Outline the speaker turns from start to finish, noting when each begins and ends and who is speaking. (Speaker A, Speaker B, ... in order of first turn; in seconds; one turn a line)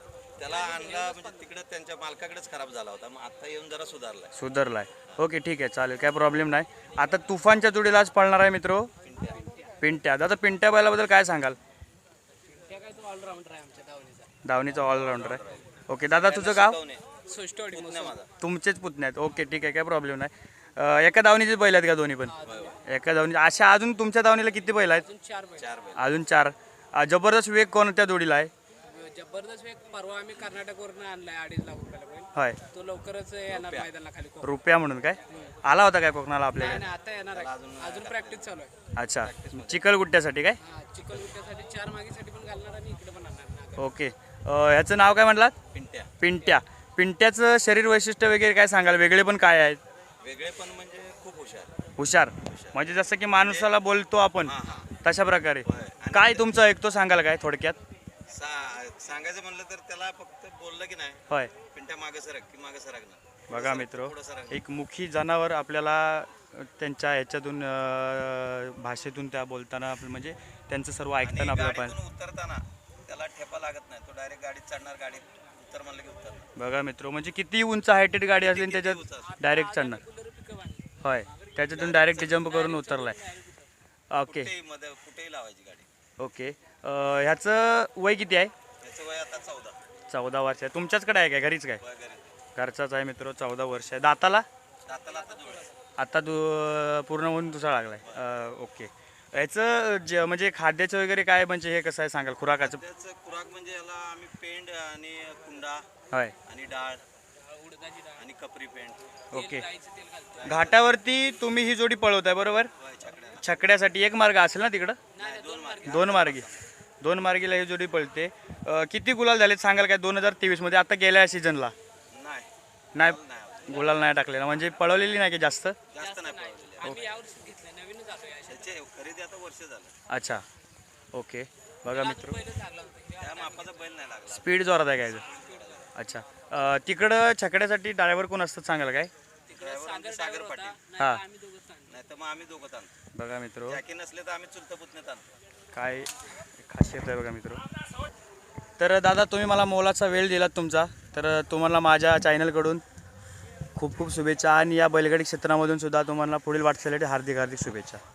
Speaker A: 0.4-4.3
Speaker B: 0.4-1.5
Speaker C: 4.3-8.9
Speaker A: 9.0-9.4
Speaker B: 9.3-9.7
Speaker C: 9.8-11.6
Speaker B: 12.5-14.3
Speaker C: 14.4-16.8
Speaker A: 14.7-17.0
Speaker B: 17.2-18.1
Speaker A: 17.7-18.3
Speaker C: 18.4-25.1
Speaker B: 22.2-22.8
Speaker A: 22.4-22.8
Speaker B: 24.9-25.7
Speaker A: 25.6-26.1
Speaker C: 25.9-28.5
Speaker B: 28.8-34.5
Speaker A: 33.5-33.9
Speaker C: 34.4-36.9
Speaker B: 35.3-35.6
Speaker B: 36.5-38.7
Speaker A: 37.3-38.5
Speaker C: 39.0-40.6
Speaker A: 39.2-39.9
Speaker B: 40.6-43.9
Speaker C: 43.8-45.5
Speaker A: 45.7-46.1
Speaker C: 46.2-49.8
Speaker A: 50.2-51.8
Speaker C: 52.0-57.8
Speaker A: 52.4-52.8
Speaker A: 53.4-53.7
Speaker A: 54.4-54.9
Speaker A: 55.6-56.6
Speaker A: 58.3-64.6
Speaker C: 63.5-72.0
Speaker A: 71.2-76.5
Speaker C: 76.5-80.0
Speaker A: 78.4-79.4
Speaker B: 79.2-83.7
Speaker C: 81.0-83.2
Speaker A: 81.7-82.3
Speaker C: 84.1-84.5
Speaker A: 84.3-85.9
Speaker C: 86.2-88.5
Speaker A: 88.8-89.8
Speaker C: 90.1-91.8
Speaker A: 91.8-92.4
Speaker C: 92.5-94.5
Speaker A: 94.8-95.7
Speaker B: 95.1-95.7
Speaker C: 96.0-102.8
Speaker A: 102.6-105.9
Speaker A: 106.4-107.0
Speaker B: 107.4-108.2
Speaker A: 108.1-109.1
Speaker C: 109.3-109.7
Speaker B: 109.3-110.6
Speaker A: 110.3-111.0
Speaker C: 110.4-112.7
Speaker A: 112.8-113.5
Speaker C: 113.4-115.0
Speaker B: 115.1-116.3
Speaker A: 115.2-116.6
Speaker C: 115.8-116.5
Speaker C: 117.0-121.7
Speaker A: 122.1-124.0
Speaker C: 122.9-125.8
Speaker A: 125.9-127.0
Speaker B: 125.9-128.7
Speaker A: 128.4-129.9
Speaker C: 130.1-130.4
Speaker C: 131.1-132.4
Speaker B: 131.8-133.7
Speaker A: 133.2-135.9
Speaker C: 134.3-135.2
Speaker C: 135.9-139.1
Speaker A: 139.5-140.8
Speaker B: 139.5-141.9
Speaker C: 141.0-141.2
Speaker A: 141.9-142.9
Speaker C: 143.1-143.8
Speaker A: 143.7-145.3
Speaker C: 145.7-147.6
Speaker C: 148.8-152.8
Speaker C: 153.7-158.0